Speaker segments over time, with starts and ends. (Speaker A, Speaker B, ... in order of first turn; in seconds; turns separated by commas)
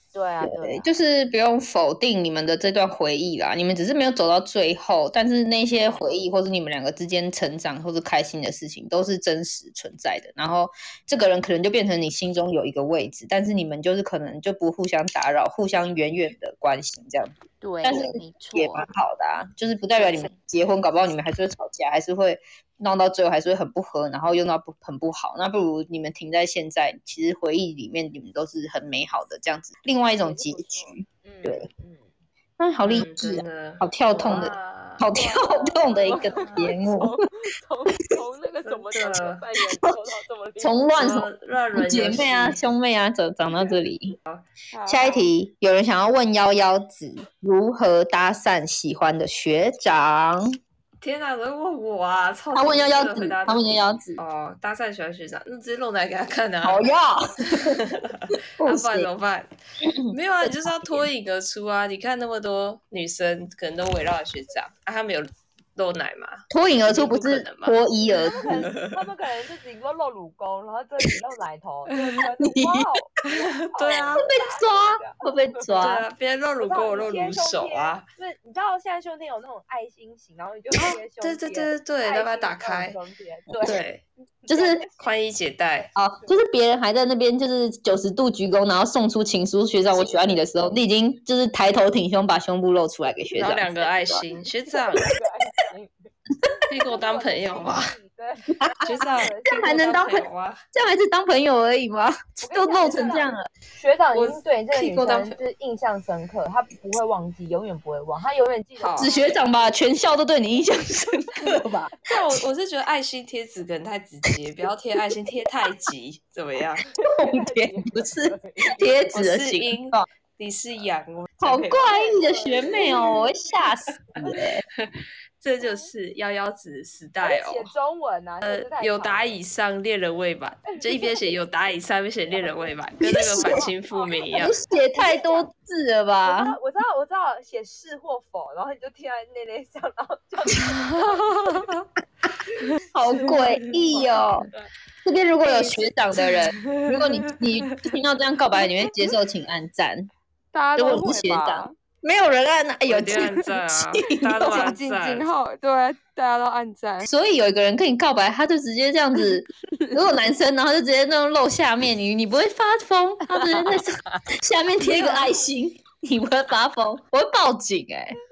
Speaker A: 0.1-0.9, Speaker B: 0.4-31.7, Speaker A: 17.6-18.9, Speaker A: 20.0-20.3, Speaker A: 30.1-32.1, Speaker B: 32.6-37.2, Speaker C: 32.8-35.1, Speaker A: 35.1-41.0, Speaker C: 36.2-36.7, Speaker C: 38.6-39.5, Speaker B: 40.6-44.2, Speaker C: 41.0-42.6, Speaker A: 44.7-45.2, Speaker B: 44.9-50.6, Speaker C: 51.0-56.9, Speaker B: 52.5-54.2, Speaker B: 56.6-57.8, Speaker C: 57.5-59.5, Speaker B: 58.6-59.1, Speaker B: 59.8-61.0, Speaker C: 60.1-67.8, Speaker B: 66.5-68.7, Speaker A: 68.1-73.1, Speaker C: 68.4-69.1, Speaker C: 71.9-72.2, Speaker B: 72.4-72.9, Speaker C: 73.2-74.3, Speaker A: 73.7-75.2, Speaker B: 74.2-76.0, Speaker C: 75.8-78.0, Speaker A: 76.6-83.8, Speaker C: 80.8-83.0, Speaker C: 83.6-84.0, Speaker A: 84.4-84.9, Speaker B: 84.5-84.8, Speaker C: 84.9-85.9, Speaker B: 86.0-94.2, Speaker A: 89.9-90.3, Speaker C: 93.3-95.2, Speaker A: 94.7-95.9, Speaker C: 96.7-97.9, Speaker A: 96.8-100.1, Speaker B: 98.5-103.5, Speaker C: 98.8-100.6, Speaker A: 102.4-109.4, Speaker C: 104.1-105.3, Speaker C: 108.8-109.1, Speaker B: 109.0-112.4, Speaker C: 112.0-116.9, Speaker A: 117.0-119.1, Speaker B: 117.0-120.0, Speaker C: 119.1-121.9, Speaker B: 121.4-124.6, Speaker A: 121.7-123.2, Speaker C: 124.8-127.7, Speaker A: 127.2-129.4, Speaker C: 128.4-134.5, Speaker B: 133.0-133.7, Speaker A: 133.3-134.4, Speaker B: 134.3-136.6, Speaker A: 134.9-135.5, Speaker A: 136.2-141.7, Speaker C: 140.6-141.8, Speaker B: 142.9-144.5, Speaker A: 143.2-144.1, Speaker B: 145.0-150.1, Speaker C: 146.3-147.8, Speaker A: 150.5-151.7, Speaker B: 150.8-154.7, Speaker C: 152.9-155.3, Speaker A: 154.4-157.1, Speaker B: 157.0-168.2, Speaker A: 163.3-164.2, Speaker A: 164.8-165.3